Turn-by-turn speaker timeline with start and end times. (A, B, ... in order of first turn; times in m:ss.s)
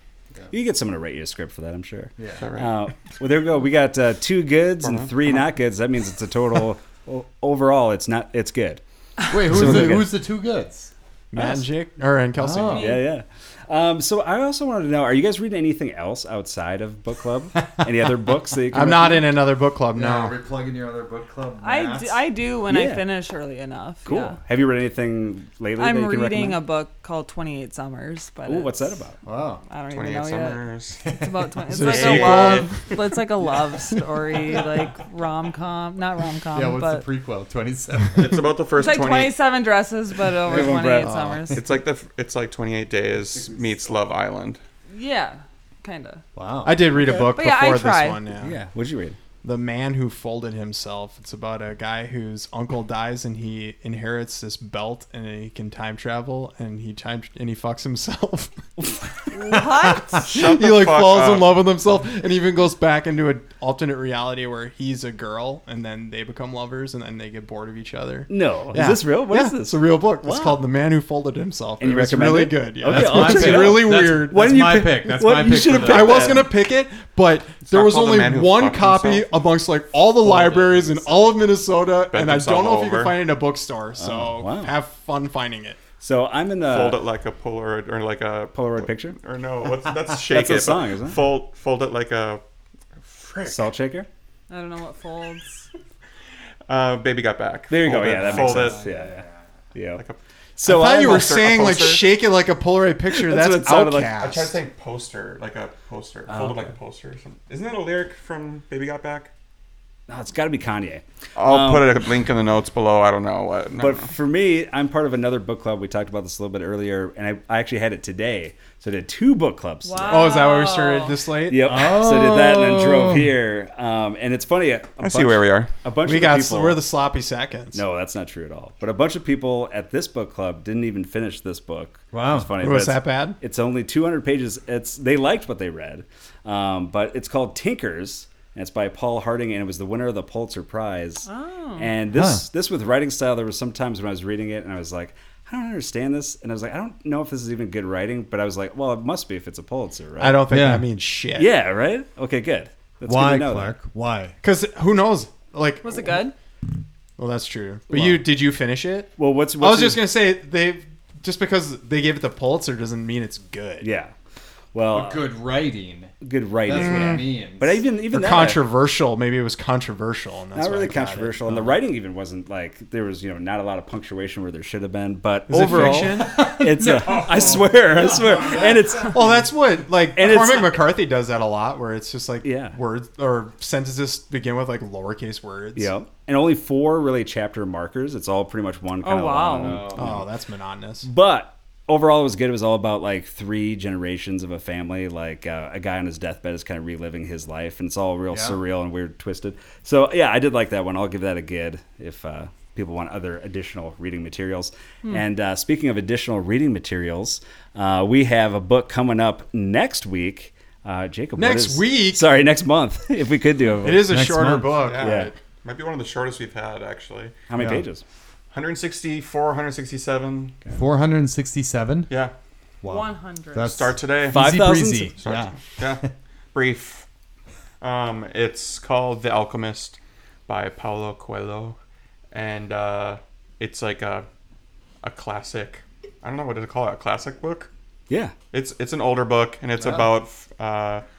0:00.5-0:10.1 A
0:02.2-0:02.5 B
0:02.4-0:02.8 C
0:04.8-0:05.4 C
0:09.3-0:10.9 B
0:09.5-0:10.1 D
0:11.3-0:12.9 D
0:11.4-0:11.6 A
0:12.4-0:13.0 B
0:12.7-0:13.1 E
0:12.7-0:19.3 A
0:18.7-0:20.3 D
0:19.9-0:22.2 B
0:21.6-0:24.4 E
0:22.7-0:23.1 A
0:24.0-0:26.6 A
0:25.8-0:29.0 E
0:28.4-0:29.2 A
0:29.2-0:29.6 B
0:29.7-0:37.0 E
0:29.9-0:31.0 C
0:31.7-0:32.8 D
0:31.8-0:32.9 C
0:36.5-0:38.5 B
0:38.1-0:39.4 C
0:38.8-0:41.6 E
0:40.4-0:41.3 A
0:41.0-0:41.4 D
0:41.5-0:44.6 C
0:44.9-0:46.2 E
0:46.3-0:46.8 B
0:46.6-0:48.6 D
0:47.0-0:48.2 E
0:48.4-0:49.2 A
0:49.4-0:58.7 D
0:59.3-1:00.3 E
1:00.2-1:01.6 C
1:00.3-1:14.4 D
1:08.3-1:10.6 A
1:11.8-1:16.5 A
1:12.8-1:16.4 B
1:15.7-1:25.8 D
1:17.7-1:19.2 C
1:20.2-1:21.1 B
1:22.1-1:23.2 C
1:24.0-1:24.7 A
1:26.0-1:27.0 A
1:26.6-1:32.4 C
1:28.5-1:29.2 A
1:30.3-1:31.2 A
1:33.0-1:33.7 C
1:33.4-1:34.1 A
1:34.5-1:35.7 E
1:36.7-1:38.8 C
1:37.7-1:40.0 A
1:38.1-1:39.4 B
1:40.6-1:41.7 A
1:40.6-1:44.6 D
1:40.9-1:42.1 C
1:43.1-1:44.2 A
1:44.2-1:49.3 C
1:46.3-1:46.7 A
1:50.1-1:52.0 A
1:51.3-1:54.1 C
1:53.8-2:00.4 A
1:59.8-2:01.2 E
2:00.1-2:01.7 D
2:01.5-2:06.8 A
2:01.6-2:03.3 B
2:05.0-2:05.7 C
2:06.0-2:07.8 D
2:07.7-2:21.3 A
2:12.1-2:12.5 B
2:12.6-2:13.4 D
2:21.2-2:21.9 E
2:21.8-2:30.4 A
2:22.1-2:22.4 B
2:30.2-2:31.5 D
2:30.5-2:30.8 B
2:31.4-2:33.8 A
2:33.1-2:34.4 B
2:34.4-2:36.2 D
2:35.8-2:36.3 E
2:37.2-2:43.9 D
2:37.9-2:38.2 A
2:39.2-2:40.0 A
2:43.8-2:44.1 A
2:44.7-2:45.3 A
2:44.9-2:46.1 B
2:46.2-2:48.6 A
2:46.6-2:47.8 B
2:46.7-2:47.2 D
2:48.1-2:51.4 D
2:50.5-2:59.4 A
2:51.5-2:51.7 B
2:55.5-2:56.5 D
2:55.6-2:59.3 B
2:59.1-3:05.9 D
3:00.1-3:00.8 A
3:02.4-3:02.8 A
3:05.8-3:10.3 A
3:09.0-3:09.8 E
3:09.6-3:10.2 B
3:09.9-3:11.1 D
3:11.0-3:34.1 A
3:18.3-3:18.6 B
3:31.4-3:32.4 D
3:33.8-3:35.3 D
3:34.1-3:34.8 B
3:34.8-3:37.4 C
3:35.0-3:35.3 A
3:37.5-3:38.0 A
3:37.6-3:37.8 B
3:38.5-3:40.6 C
3:40.7-3:42.1 B
3:42.8-3:46.1 B
3:42.8-3:43.7 E
3:43.6-3:44.4 C
3:44.3-3:45.3 A
3:45.2-3:47.1 C
3:47.8-3:51.8 C
3:52.3-3:54.2 C
3:55.0-3:57.7 C
3:58.5-4:01.0 C
3:59.8-4:00.1 B